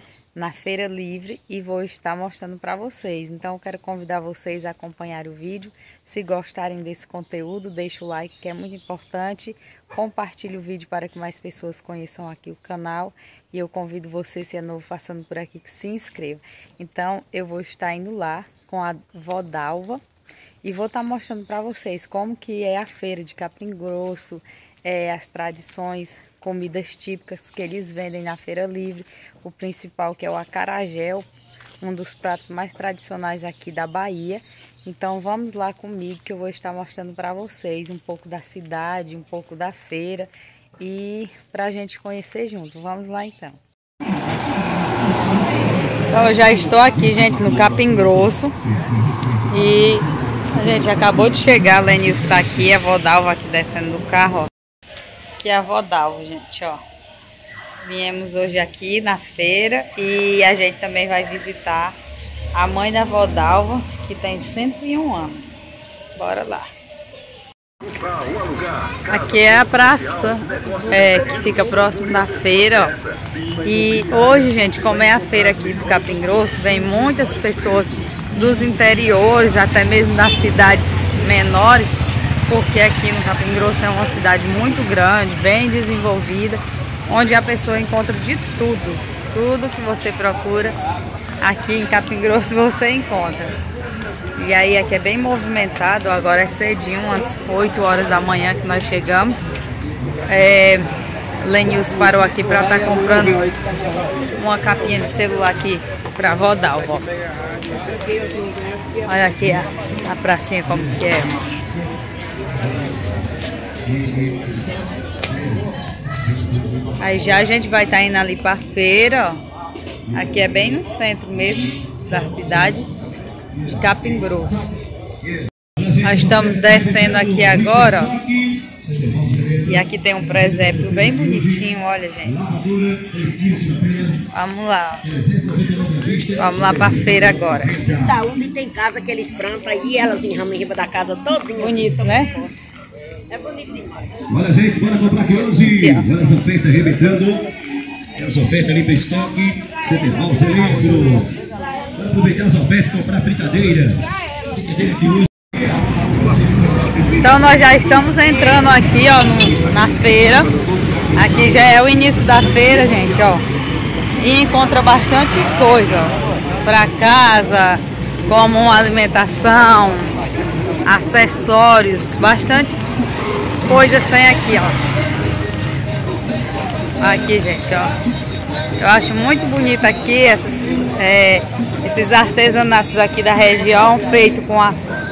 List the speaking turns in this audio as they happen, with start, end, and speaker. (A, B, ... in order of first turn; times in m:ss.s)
0:00.3-0:20.0 A
0:20.6-0:31.2 A
0:31.8-0:43.6 A
0:46.1-0:48.6 A
0:49.5-0:54.5 A
0:55.4-0:56.8 A
0:57.8-1:02.0 A
1:02.5-1:05.3 A
1:06.1-1:06.7 A
1:09.1-1:13.0 A
1:13.6-1:30.7 A
1:31.4-1:33.6 A
1:34.4-1:39.4 A
1:40.3-1:40.9 A
1:41.4-1:43.5 A
1:44.4-1:47.0 A
1:47.9-1:49.1 B
1:49.1-1:51.4 A
1:57.0-1:59.4 A
2:00.1-2:02.9 A
2:03.6-2:04.7 A
2:05.8-2:09.6 C
2:06.0-2:08.2 A
2:09.6-2:12.5 A
2:12.4-2:14.3 C
2:14.3-2:15.1 A
2:15.1-2:18.1 C
2:16.4-2:17.8 A
2:17.9-2:22.4 B
2:21.6-2:22.4 A
2:23.3-2:24.2 B
2:24.3-2:27.4 C
2:25.6-2:26.1 A
2:28.1-2:31.3 C
2:31.9-2:34.0 C
2:34.6-2:35.3 C
2:37.2-2:40.5 A
2:41.1-2:43.4 A
2:44.2-2:50.2 A
2:50.8-2:52.8 A
2:53.6-2:54.8 A
2:57.0-2:57.9 A
2:58.8-3:04.8 A